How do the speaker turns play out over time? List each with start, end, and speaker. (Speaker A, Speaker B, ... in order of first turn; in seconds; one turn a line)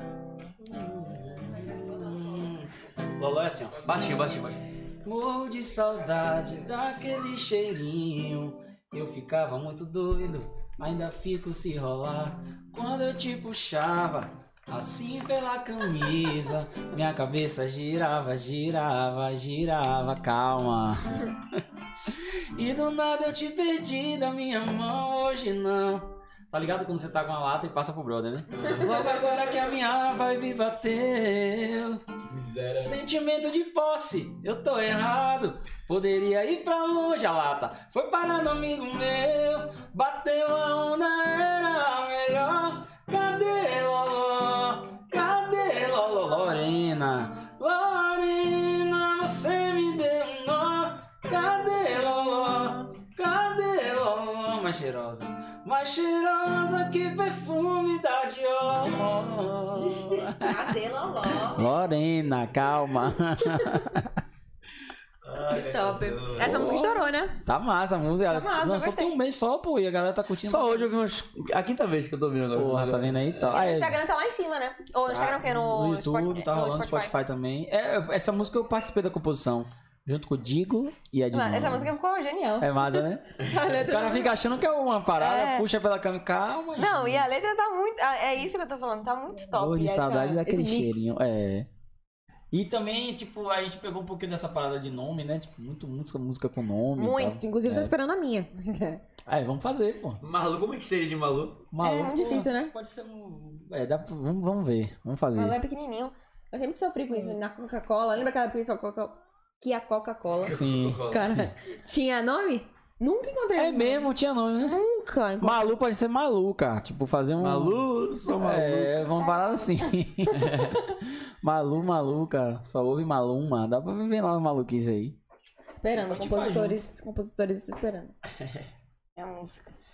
Speaker A: 0.6-4.3
Speaker B: 3.8-4.6
Speaker A: 5.0-32.0
Speaker B: 28.5-29.0
Speaker B: 32.2-33.0
Speaker A: 32.7-60.6
Speaker C: 52.4-52.7
Speaker B: 59.7-60.3
Speaker C: 60.4-61.8
Speaker A: 61.3-64.1
Speaker C: 63.5-63.9
Speaker B: 65.2-66.8
Speaker C: 65.5-67.4
Speaker A: 66.4-70.9
Speaker C: 68.3-69.1
Speaker B: 70.4-73.4
Speaker A: 72.5-74.0
Speaker C: 73.4-77.1
Speaker A: 75.1-81.9
Speaker C: 81.3-84.4
Speaker A: 82.6-87.3
Speaker C: 85.2-85.7
Speaker C: 86.8-91.1
Speaker A: 89.5-91.7
Speaker A: 92.5-97.9
Speaker C: 97.0-99.0
Speaker A: 99.2-100.2
Speaker B: 100.2-101.7
Speaker A: 101.7-105.6
Speaker C: 101.8-102.7
Speaker C: 105.3-115.8
Speaker B: 110.4-111.5
Speaker A: 110.5-111.5
Speaker A: 113.5-114.8
Speaker A: 115.4-125.2
Speaker B: 117.4-119.1
Speaker C: 119.1-120.9
Speaker B: 120.3-120.7
Speaker C: 125.7-128.2
Speaker A: 125.9-126.8
Speaker C: 129.2-129.7